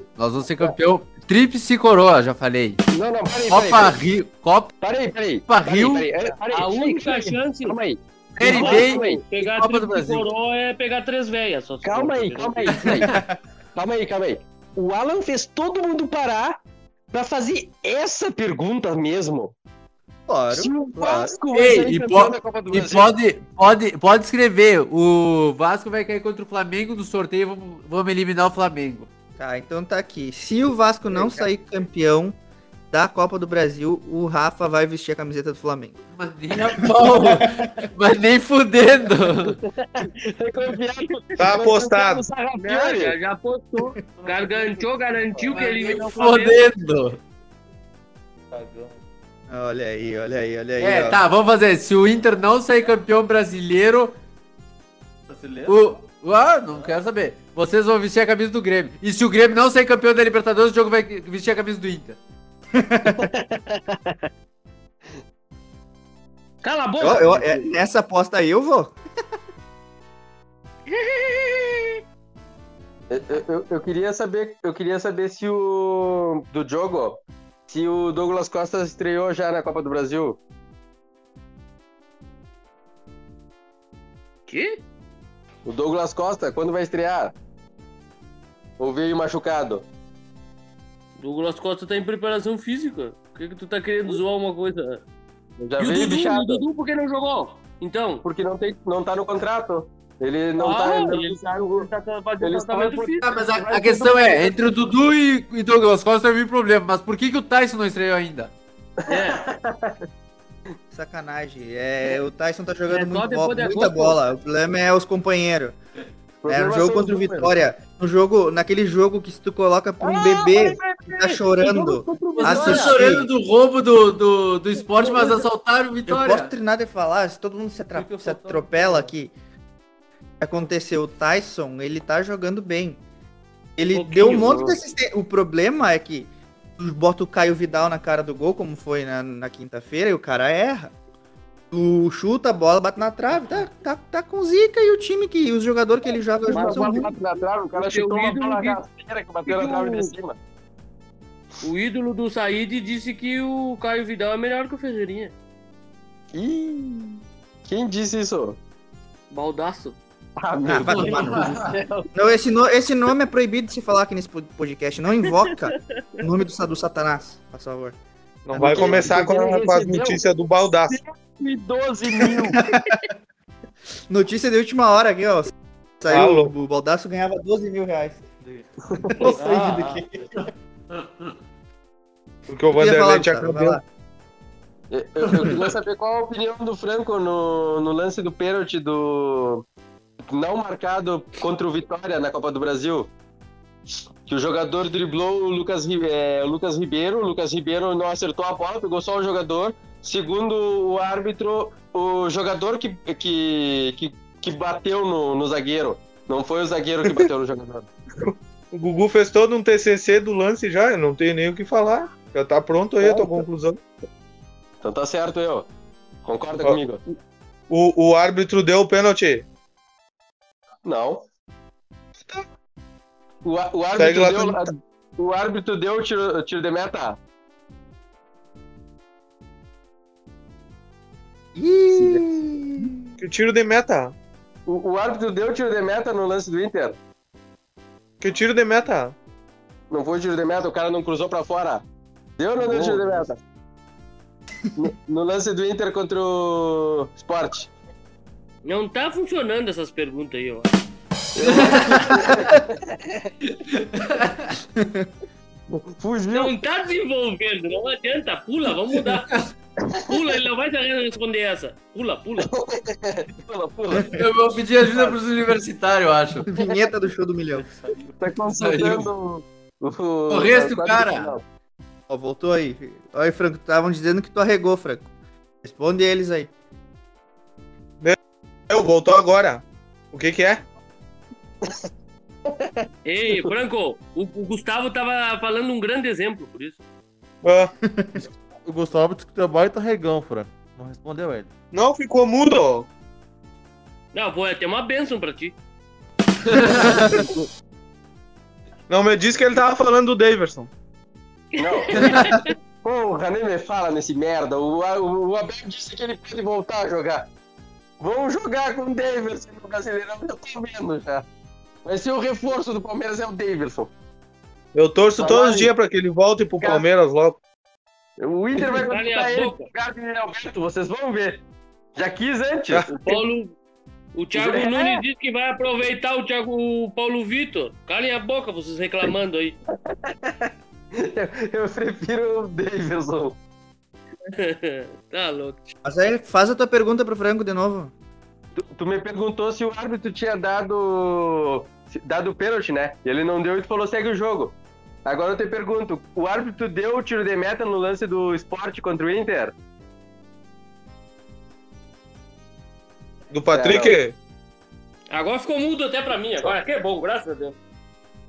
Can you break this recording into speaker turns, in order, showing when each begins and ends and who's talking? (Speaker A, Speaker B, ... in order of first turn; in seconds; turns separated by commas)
Speaker A: 0.2-2.8, Speaker B: 2.9-4.0, Speaker A: 3.5-4.7, Speaker B: 4.8-9.2, Speaker A: 5.5-6.1, Speaker C: 6.5-7.8, Speaker A: 8.3-10.2, Speaker C: 8.4-13.0, Speaker B: 11.8-13.1, Speaker D: 13.1-13.3, Speaker B: 13.7-16.6, Speaker B: 17.1-19.5, Speaker D: 20.3-21.3, Speaker B: 20.5-23.1, Speaker A: 21.5-29.1, Speaker D: 29.4-32.4, Speaker D: 32.9-36.0, Speaker A: 36.2-39.6, Speaker D: 36.5-37.7, Speaker B: 39.9-43.1, Speaker E: 41.4-42.3, Speaker C: 42.6-46.6, Speaker F: 44.2-45.5, Speaker A: 45.5-47.2, Speaker F: 48.5-48.9, Speaker D: 49.5-51.2, Speaker A: 50.8-54.2, Speaker F: 55.3-56.0, Speaker A: 55.7-62.2, Speaker D: 62.7-63.3, Speaker B: 63.1-64.2, Speaker C: 66.6-67.7, Speaker D: 67.0-69.0, Speaker C: 70.9-71.9, Speaker B: 73.1-80.4, Speaker C: 84.5-84.8, Speaker B: 85.6-87.3, Speaker B: 88.8-89.8, Speaker C: 91.2-95.0, Speaker B: 95.6-96.6, Speaker C: 95.8-98.2, Speaker B: 98.2-101.9, Speaker C: 100.6-103.9, Speaker B: 102.4-104.5, Speaker A: 103.2-108.5, Speaker B: 109.0-110.0, Speaker C: 109.1-109.4, Speaker D: 110.9-115.8, Speaker C: 112.9-114.2, Speaker B: 116.4-117.5, Speaker D: 116.5-123.3, Speaker B: 120.0-123.0, Speaker A: 122.4-126.5, Speaker B: 125.0-125.3, Speaker D: 126.1-129.3, Speaker F: 127.9-129.1, Speaker D: 130.4-133.0, Speaker D: 133.8-140.9, Speaker C: 133.9-134.7, Speaker B: 134.3-134.8, Speaker D: 141.7-147.1, Speaker C: 146.5-147.1, Speaker B: 146.5-150.4, Speaker C: 147.7-148.8, Speaker C: 149.5-150.1, Speaker C: 151.6-155.3, Speaker B: 156.3-158.6, Speaker C: 159.3-160.0, Speaker B: 160.4-162.1, Speaker D: 160.7-167.9, Speaker A: 161.0-161.5, Speaker C: 165.5-166.2, Speaker E: 168.5-171.0, Speaker D: 168.5-169.1, Speaker B: 168.6-170.2, Speaker B: 170.8-172.6, Speaker D: 172.4-173.1, Speaker D: 174.1-178.2, Speaker E: 176.1-176.5, Speaker B: 178.9-179.2, Speaker D: 179.2-180.1, Speaker F: 179.2-180.1, Speaker E: 182.5-183.8, Speaker D: 182.7-183.8, Speaker B: 184.9-189.6, Speaker B: 190.3-193.1, Speaker B: 194.2-207.9, Speaker E: 208.2-213.8, Speaker B: 213.0-213.4, Speaker B: 214.8-215.7, Speaker B: 216.2-217.0, Speaker E: 217.7-219.4, Speaker B: 220.8-221.2, Speaker B: 223.4-227.2, Speaker E: 223.9-224.7, Speaker D: 231.6-233.2, Speaker B: 231.9-232.2, Speaker E: 233.2-234.1, Speaker B: 234.7-237.0, Speaker E: 238.2-239.1, Speaker B: 239.9-241.8, Speaker B: 242.4-243.4, Speaker E: 242.6-243.0, Speaker B: 244.8-247.7, Speaker C: 248.6-250.7, Speaker B: 251.3-253.3, Speaker A: 251.6-252.2, Speaker A: 253.7-254.5, Speaker D: 254.8-255.1, Speaker B: 255.7-256.5, Speaker C: 256.3-259.4, Speaker C: 260.1-262.5, Speaker B: 262.5-264.1, Speaker A: 264.1-266.5, Speaker B: 264.9-265.1, Speaker D: 266.5-267.7, Speaker B: 268.2-271.4, Speaker A: 268.6-269.1, Speaker A: 270.3-271.3, Speaker D: 272.1-275.1, Speaker D: 275.6-276.5, Speaker E: 278.7-280.6, Speaker B: 282.5-283.5, Speaker C: 283.0-286.8, Speaker E: 287.4-287.7, Speaker D: 287.8-288.2, Speaker F: 288.6-291.5, Speaker E: 291.7-292.9, Speaker C: 294.1-295.5, Speaker A: 296.5-297.1, Speaker D: 296.7-297.2, Speaker E: 298.9-300.7, Speaker C: 301.5-302.5, Speaker B: 301.6-307.2, Speaker B: 308.0-311.2, Speaker B: 311.8-313.9, Speaker E: 314.7-317.4, Speaker B: 315.2-315.7, Speaker B: 316.6-316.9, Speaker B: 318.2-321.4, Speaker C: 318.7-319.7, Speaker B: 321.9-323.2, Speaker E: 322.7-322.9, Speaker C: 322.9-323.5, Speaker C: 324.1-329.6, Speaker B: 324.3-325.0, Speaker B: 329.9-333.4, Speaker C: 334.3-335.6, Speaker D: 335.8-337.9, Speaker B: 338.6-349.5, Speaker E: 353.3-354.1, Speaker B: 353.5-354.0, Speaker C: 355.1-357.6